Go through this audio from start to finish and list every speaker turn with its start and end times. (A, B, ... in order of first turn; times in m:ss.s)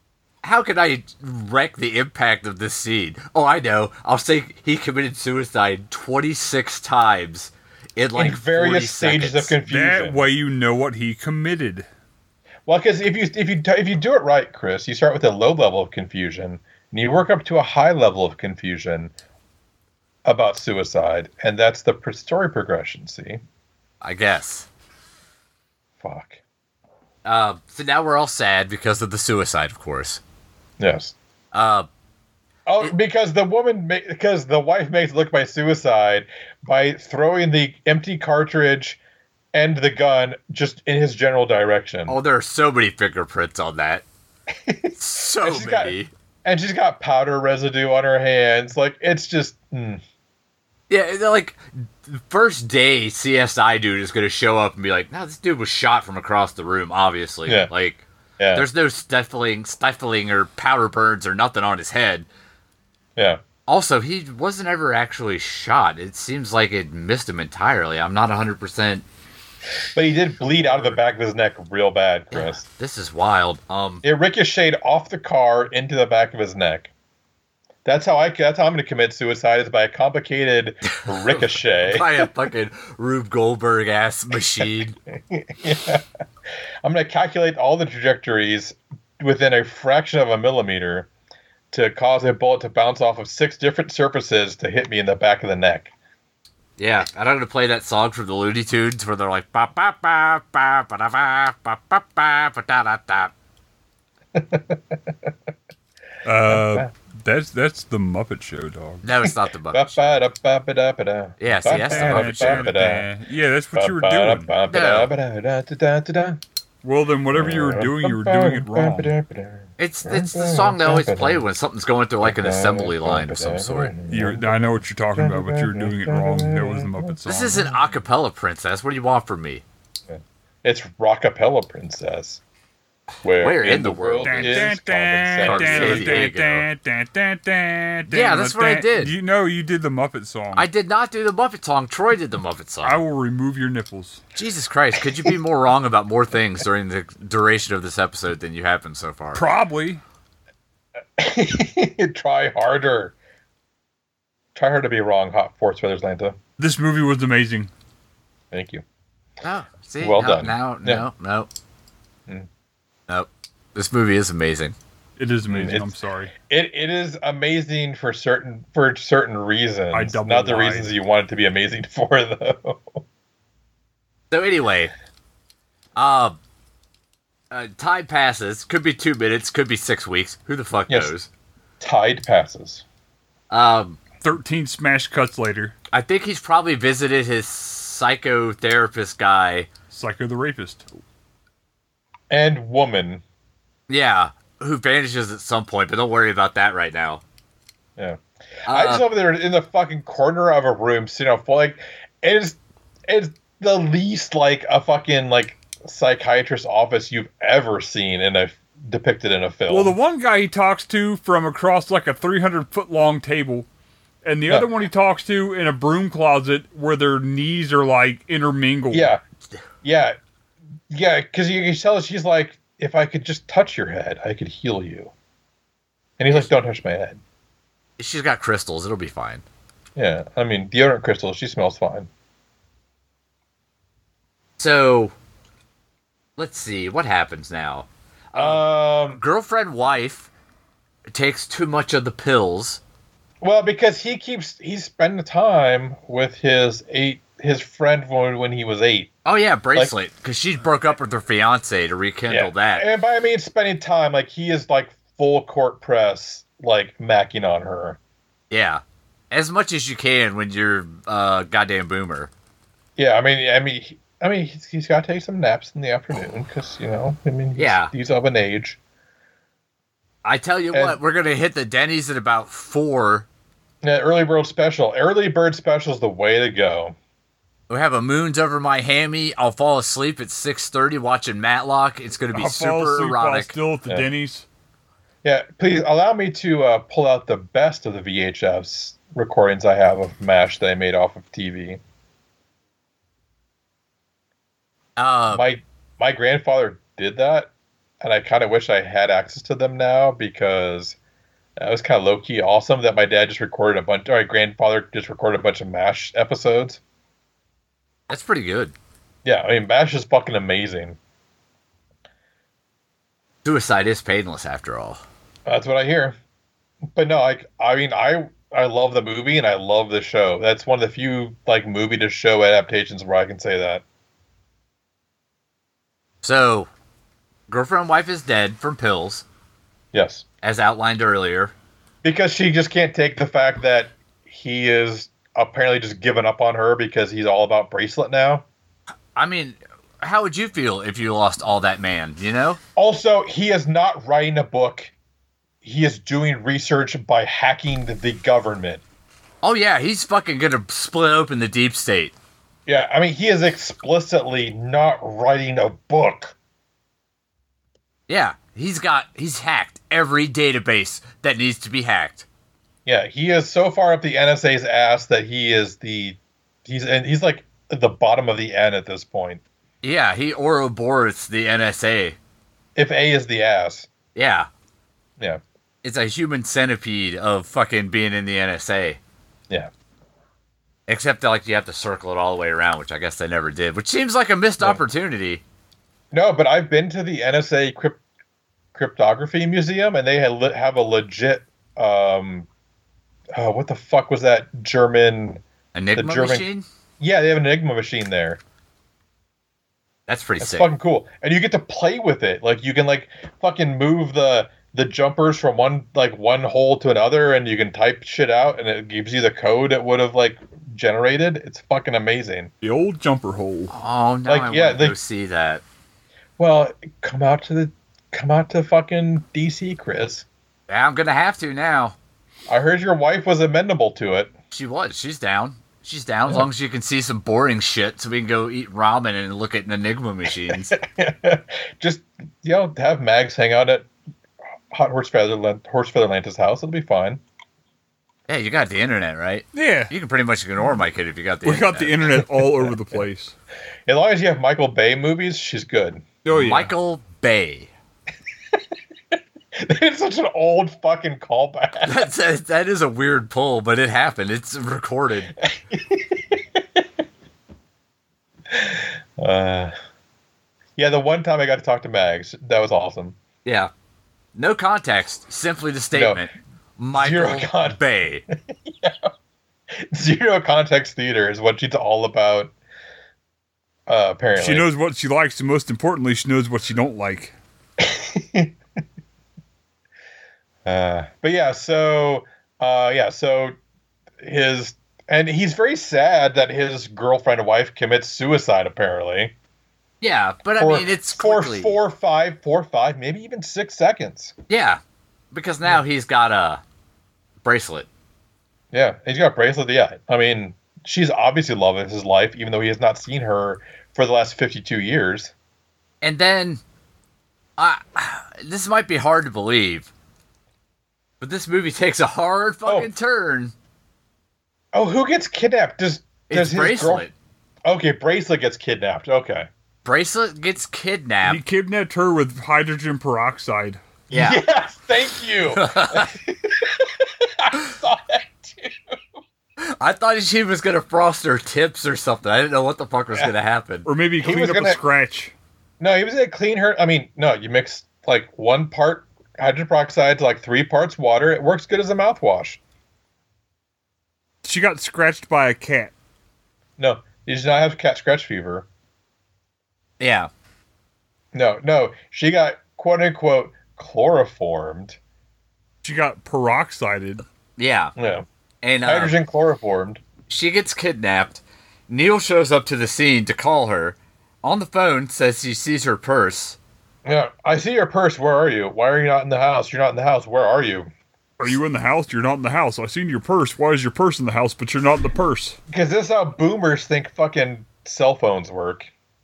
0:00.4-0:09.5 A
0:08.2-0:10.2 B
0:09.7-0:11.8 C
0:12.6-0:19.1 B
0:20.2-0:23.4 B
0:24.0-0:24.7 A
0:26.0-0:26.4 B
0:27.2-0:30.2 A
0:30.8-0:31.1 B
0:31.5-0:31.9 A
0:32.7-0:39.0 B
0:39.5-0:42.2 B
0:42.1-0:44.0 A
0:44.5-0:50.0 B
0:45.0-0:46.1 A
0:50.9-1:02.3 A
0:57.4-0:57.7 B
0:58.4-0:58.6 B
1:03.2-1:03.4 B
1:03.7-1:09.0 A
1:09.9-1:12.6 B
1:10.6-1:10.9 A
1:12.3-1:14.0 A
1:14.0-1:16.9 B
1:17.8-1:22.3 B
1:21.2-1:25.0 A
1:25.3-1:26.0 B
1:26.8-1:31.1 B
1:31.7-1:35.9 B
1:36.8-1:43.3 A
1:44.3-1:45.3 B
1:46.2-1:49.0 C
1:46.5-1:46.9 B
1:49.0-1:50.0 A
1:49.7-1:53.1 B
1:51.4-1:52.7 A
1:51.7-1:54.5 C
1:53.7-1:56.4 B
1:54.7-1:55.1 A
1:56.8-1:59.1 C
1:57.3-2:01.4 B
1:59.8-2:03.9 A
2:02.2-2:07.1 B
2:04.1-2:07.7 C
2:07.2-2:09.6 A
2:10.1-2:12.4 B
2:13.2-2:16.3 B
2:13.4-2:14.7 A
2:14.2-2:20.7 C
2:15.4-2:16.6 A
2:18.1-2:19.1 A
2:20.5-2:23.0 A
2:22.8-2:24.2 C
2:24.3-2:29.4 A
2:29.3-2:30.0 C
2:31.2-2:33.1 B
2:34.5-2:36.4 B
2:36.6-2:37.7 C
2:38.5-2:38.8 B
2:39.4-2:41.5 A
2:40.0-2:41.0 B
2:43.1-2:44.8 A
2:45.2-2:46.3 C
2:45.5-2:45.9 B
2:46.5-2:53.0 B
2:49.9-2:50.9 C
2:54.3-2:54.9 A
2:56.0-2:56.4 A
2:57.5-3:01.3 A
3:01.8-3:02.8 B
3:03.5-3:04.0 A
3:04.2-3:05.7 C
3:05.9-3:09.7 A
3:09.9-3:10.8 C
3:12.3-3:13.2 B
3:13.9-3:17.2 A
3:18.0-3:30.0 B
3:18.7-3:19.0 A
3:29.7-3:33.7 C
3:34.2-3:39.1 C
3:38.9-3:39.2 B
3:39.8-3:40.2 B
3:40.9-3:45.1 B
3:46.2-3:47.2 B
3:48.0-3:49.4 A
3:50.0-3:52.1 B
3:54.6-3:55.1 A
3:56.4-4:00.3 A
3:58.4-3:59.2 B
4:01.1-4:02.8 A
4:03.4-4:09.1 B
4:09.2-4:12.9 A
4:12.3-4:18.0 B
4:18.5-4:22.3 A
4:23.0-4:28.8 B
4:27.6-4:27.9 A
4:30.2-4:33.3 A
4:30.7-4:31.0 B
4:33.8-4:37.0 B
4:37.7-4:43.5 A
4:42.3-4:44.4 C
4:45.2-4:51.8 B
4:55.0-4:55.4 A
4:55.3-5:01.0 B
5:01.6-5:06.8 B
5:08.1-5:08.7 A
5:09.2-5:11.0 B
5:13.4-5:15.0 A
5:15.4-5:16.2 B
5:16.9-5:23.8 B
5:26.2-5:26.7 A
5:27.5-5:29.2 A
5:29.9-5:30.2 B
5:30.4-5:31.5 A
5:32.0-5:38.4 B
5:39.1-5:42.6 A
5:42.8-5:44.9 B
5:45.6-5:48.8 B
5:49.4-5:52.1 A
5:52.6-5:56.4 B
5:58.1-6:02.2 A
6:02.8-6:09.4 B
6:09.8-6:12.2 A
6:12.8-6:13.9 B
6:14.1-6:14.5 A
6:15.8-6:19.0 A
6:20.9-6:25.4 A
6:26.1-6:28.0 B
6:28.7-6:32.5 B
6:33.3-6:35.4 B
6:35.7-6:36.6 A
6:36.0-6:36.4 B
6:37.0-6:38.4 B
6:40.1-6:40.7 A
6:40.4-6:52.5 B
6:52.6-6:53.7 C
6:53.7-6:55.6 A
6:54.3-6:55.0 B
6:56.4-7:00.2 B
7:00.7-7:02.0 A
7:02.5-7:04.3 B
7:04.5-7:10.7 A
7:10.7-7:13.9 B
7:14.7-7:17.2 B
7:18.3-7:22.0 A
7:19.5-7:19.9 C
7:21.4-7:23.3 C
7:23.9-7:26.1 B
7:26.2-7:26.7 C
7:26.3-7:27.7 A
7:29.6-7:32.0 B
7:31.8-7:35.3 A
7:35.4-7:36.8 B
7:38.5-7:39.7 B
7:40.8-7:43.2 B
7:43.4-7:43.7 A
7:44.3-7:48.2 A
7:45.9-7:46.2 B
7:47.0-7:47.8 B
7:48.6-7:49.1 B
7:49.7-7:52.5 B
7:53.9-7:54.7 B
7:54.4-7:57.3 C
7:57.8-7:58.5 B
8:00.6-8:03.5 B
8:04.2-8:09.3 B
8:10.0-8:11.8 A
8:10.6-8:14.3 B
8:14.5-8:14.8 A
8:15.3-8:16.6 A
8:17.4-8:17.9 A
8:18.7-8:25.3 B
8:26.0-8:26.6 A
8:27.6-8:29.9 A
8:31.2-8:33.5 A
8:34.7-8:37.1 B
8:36.3-8:37.1 A
8:37.6-8:39.5 B
8:39.8-8:41.4 A
8:41.2-8:43.8 C
8:44.1-8:49.0 B
8:44.1-8:44.4 A
8:45.5-8:46.1 A
8:49.8-8:53.9 A
8:53.8-8:55.3 C
8:54.2-8:54.8 B
8:55.8-9:02.6 B
9:04.4-9:05.9 C
9:06.8-9:08.7 B
9:10.0-9:10.3 A
9:11.3-9:15.0 B
9:15.8-9:17.2 C
9:17.6-9:17.9 A
9:18.0-9:18.2 B
9:18.6-9:19.1 A
9:18.8-9:20.0 B
9:20.3-9:26.6 A
9:27.0-9:30.9 B
9:31.4-9:35.6 C
9:35.7-9:38.9 B